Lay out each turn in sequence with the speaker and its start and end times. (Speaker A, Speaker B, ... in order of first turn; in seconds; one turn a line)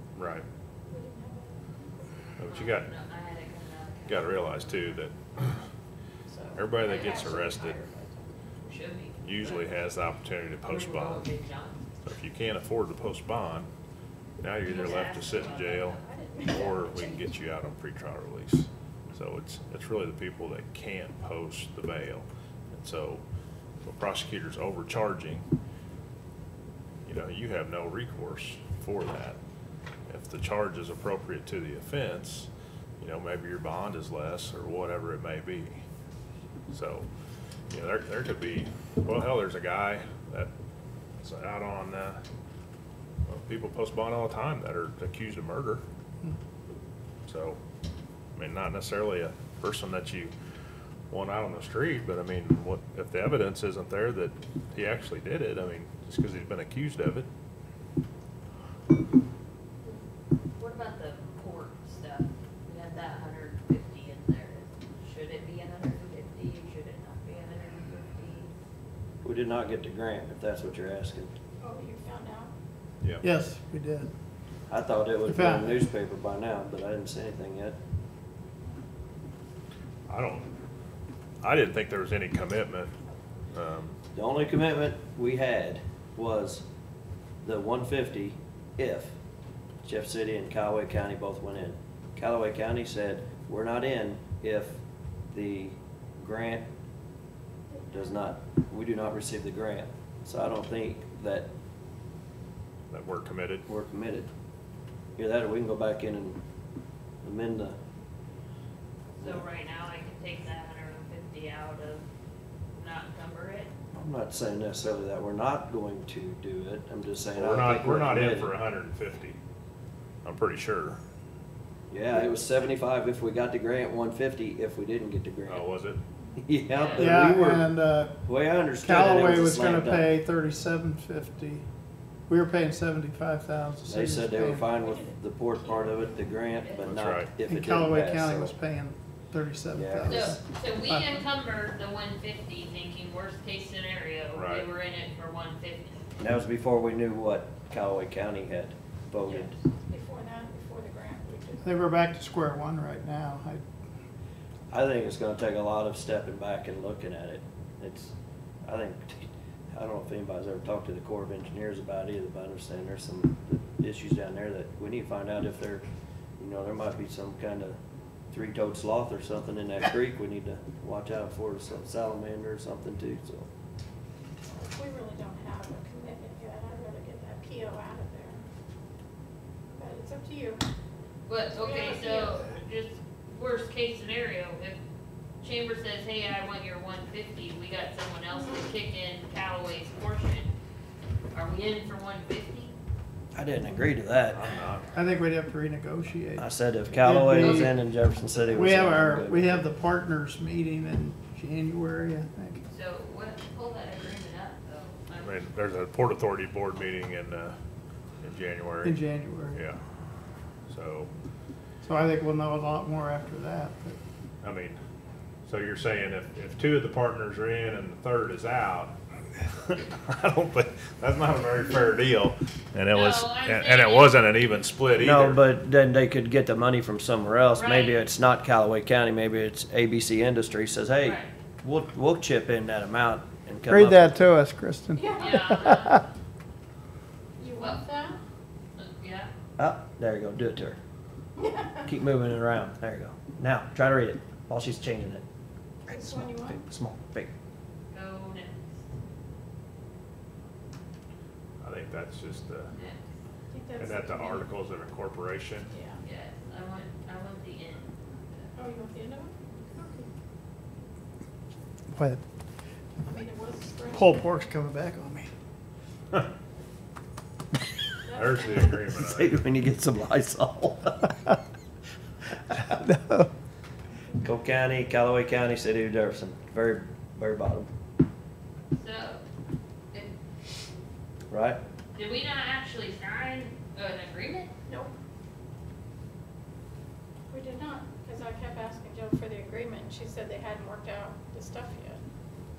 Speaker A: 0.1-0.4
Speaker B: 0.9-1.8
Speaker A: 2.4-2.9
Speaker C: 2.4-5.0
Speaker A: 4.0-5.6
Speaker B: 6.3-8.3
Speaker A: 6.5-7.8
Speaker C: 6.8-7.7
Speaker C: 8.6-9.7
Speaker A: 9.2-11.3
Speaker C: 10.6-11.9
Speaker A: 12.0-13.7
Speaker A: 14.4-23.2
Speaker C: 14.6-16.0
Speaker B: 15.5-17.3
Speaker A: 23.8-25.4
Speaker A: 27.1-29.4
Speaker A: 30.1-35.8
Speaker A: 36.7-37.0
Speaker A: 37.7-40.5
Speaker A: 41.2-42.2
Speaker A: 43.3-45.8
Speaker A: 47.3-47.6
Speaker A: 48.4-50.3
Speaker A: 51.1-57.2
Speaker C: 60.5-68.5
Speaker D: 69.2-71.3
Speaker B: 71.6-72.5
Speaker E: 73.2-74.1
Speaker D: 74.7-77.8
Speaker E: 75.3-75.9
Speaker A: 80.1-80.5
Speaker A: 81.4-82.9
Speaker A: 83.5-84.0
Speaker D: 84.1-86.6
Speaker D: 87.4-89.1
Speaker D: 89.8-96.7
Speaker B: 97.7-98.0
Speaker D: 97.9-101.5
Speaker A: 102.9-103.7
Speaker D: 103.7-104.3
Speaker D: 105.2-106.4
Speaker D: 107.2-107.8
Speaker D: 109.2-109.5
Speaker C: 109.2-112.0
Speaker C: 112.7-113.7
Speaker D: 113.9-118.5
Speaker A: 117.3-119.4
Speaker A: 120.2-121.0
Speaker D: 121.9-125.7
Speaker A: 125.5-126.0
Speaker D: 126.4-127.7
Speaker C: 126.7-127.0
Speaker E: 127.0-128.2
Speaker D: 128.2-130.1
Speaker E: 128.8-131.6
Speaker E: 132.3-134.7
Speaker D: 133.8-138.5
Speaker C: 136.3-136.9
Speaker A: 136.8-137.3
Speaker E: 137.5-141.1
Speaker D: 139.7-140.4
Speaker C: 140.1-146.0
Speaker A: 144.3-144.7
Speaker D: 146.2-149.5
Speaker C: 149.3-149.5
Speaker B: 149.8-151.9
Speaker E: 151.6-153.6
Speaker D: 154.7-165.8
Speaker D: 166.4-167.8
Speaker D: 168.3-173.5
Speaker B: 174.5-178.4
Speaker B: 179.7-180.6
Speaker C: 181.2-184.8
Speaker B: 181.6-182.5
Speaker C: 185.4-190.5
Speaker C: 191.3-192.7
Speaker D: 193.3-194.4
Speaker A: 194.3-194.9
Speaker E: 194.9-197.8
Speaker D: 196.4-199.7
Speaker C: 197.4-197.7
Speaker E: 198.4-202.6
Speaker C: 202.7-205.4
Speaker A: 205.2-207.5
Speaker A: 208.2-209.0
Speaker E: 208.8-209.6
Speaker A: 209.5-209.8
Speaker A: 210.7-211.1
Speaker E: 211.8-214.0
Speaker A: 214.4-214.8
Speaker A: 215.4-218.9
Speaker A: 219.6-225.4
Speaker C: 222.9-224.2
Speaker D: 225.0-234.1
Speaker C: 227.5-228.1
Speaker C: 231.0-231.3
Speaker E: 233.7-236.0
Speaker B: 234.9-235.7
Speaker C: 235.2-236.0
Speaker B: 237.4-238.2
Speaker C: 237.6-237.8
Speaker C: 238.8-239.3
Speaker D: 239.6-240.8
Speaker D: 241.8-245.2
Speaker D: 245.9-247.3
Speaker B: 245.9-246.6
Speaker C: 247.9-248.8
Speaker A: 251.6-252.7
Speaker C: 252.8-253.1
Speaker B: 253.5-254.5
Speaker A: 253.8-255.7
Speaker B: 255.7-256.0
Speaker C: 256.0-258.5
Speaker B: 258.6-260.1
Speaker E: 261.9-262.2
Speaker B: 263.1-264.2
Speaker E: 263.9-265.3
Speaker B: 268.1-268.9
Speaker A: 268.1-269.4
Speaker D: 268.9-271.1
Speaker E: 272.6-273.3
Speaker D: 274.2-277.7
Speaker C: 278.7-279.2
Speaker D: 281.3-281.6
Speaker C: 281.9-284.5
Speaker B: 284.6-284.9
Speaker B: 287.3-292.0